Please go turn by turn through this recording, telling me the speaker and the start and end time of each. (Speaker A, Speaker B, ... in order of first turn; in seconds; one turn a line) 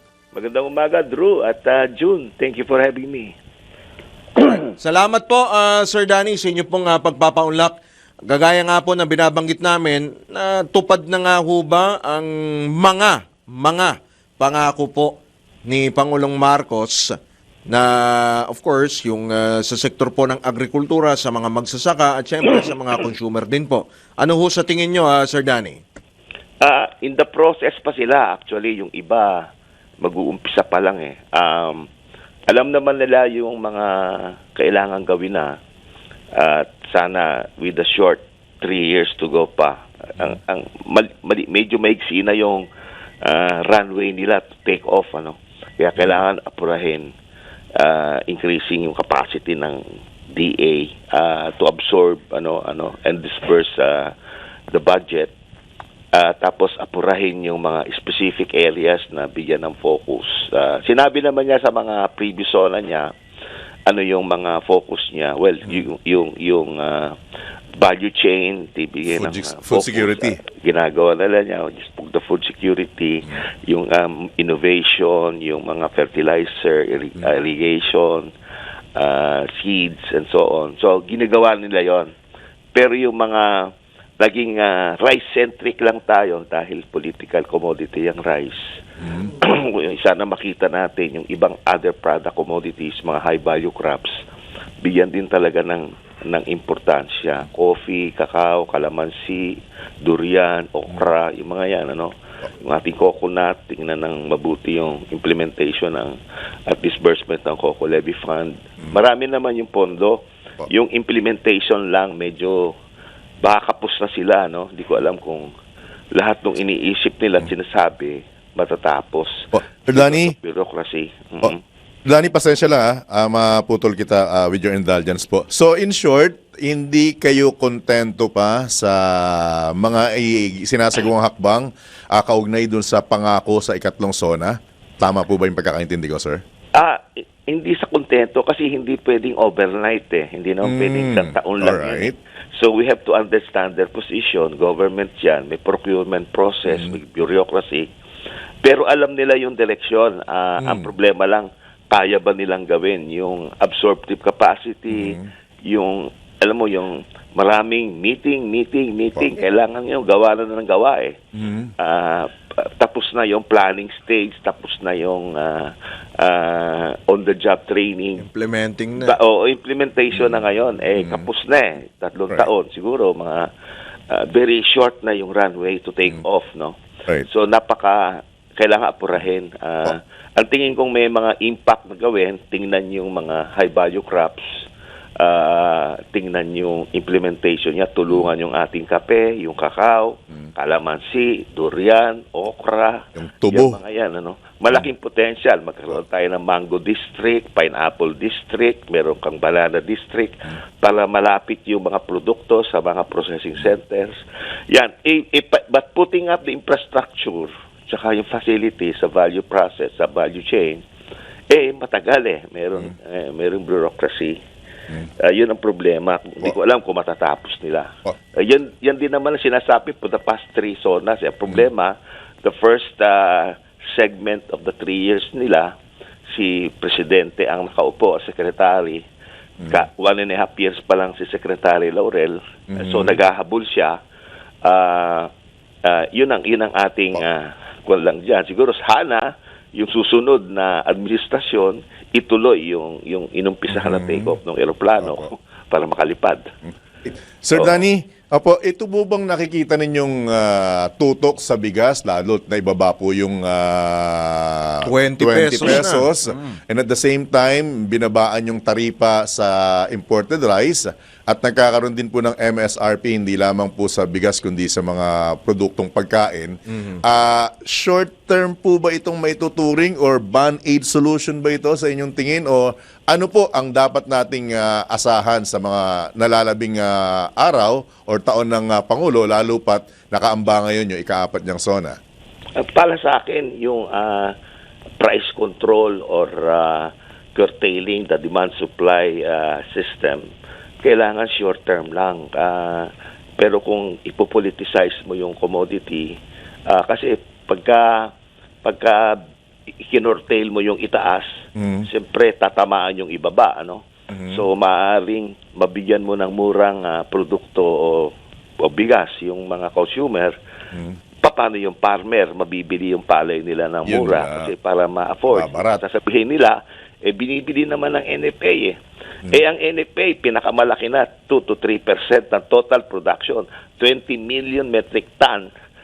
Speaker A: 0.3-3.4
Speaker A: 4.4-4.7
Speaker B: 4.8-17.1
Speaker B: 17.7-25.8
Speaker A: 26.6-29.4
Speaker A: 30.0-31.9
Speaker A: 32.5-35.5
Speaker A: 36.4-42.6
Speaker A: 43.2-47.1
Speaker C: 46.0-46.2
Speaker A: 47.8-54.1
Speaker A: 54.7-55.3
Speaker A: 56.1-63.1
Speaker A: 63.9-67.2
Speaker A: 67.8-78.3
Speaker C: 69.1-70.4
Speaker A: 78.9-82.1
Speaker A: 82.7-88.6
Speaker C: 89.0-89.3
Speaker A: 89.4-94.1
Speaker A: 94.8-112.7
Speaker A: 113.4-115.5
Speaker A: 116.1-121.6
Speaker C: 119.5-120.3
Speaker C: 122.1-136.4
Speaker A: 136.8-147.9
Speaker C: 140.6-142.1
Speaker C: 146.7-147.0
Speaker A: 148.6-161.2
Speaker C: 150.6-150.9
Speaker C: 154.9-155.3
Speaker C: 161.3-161.7
Speaker A: 161.8-168.2
Speaker B: 168.2-169.2
Speaker A: 169.0-173.5
Speaker C: 170.1-171.2
Speaker A: 174.1-176.7
Speaker A: 177.2-184.4
Speaker A: 185.2-204.2
Speaker C: 193.1-193.8
Speaker A: 204.7-210.8
Speaker A: 211.5-214.4
Speaker A: 215.2-225.7
Speaker A: 226.3-229.0
Speaker A: 229.6-234.0
Speaker C: 232.7-233.2
Speaker A: 234.6-235.3
Speaker A: 235.8-246.5
Speaker C: 243.7-244.4
Speaker C: 245.0-245.3
Speaker C: 246.6-282.0
Speaker A: 247.5-247.8
Speaker B: 254.8-256.6
Speaker B: 266.7-267.0
Speaker A: 282.6-284.3
Speaker A: 285.0-290.2
Speaker A: 290.8-296.1
Speaker A: 296.7-298.1
Speaker A: 298.6-299.2
Speaker A: 299.8-310.4
Speaker C: 301.6-301.9
Speaker C: 304.1-304.4
Speaker C: 310.7-311.0
Speaker A: 311.2-318.8
Speaker C: 313.8-314.5
Speaker C: 315.3-315.8
Speaker A: 319.3-325.5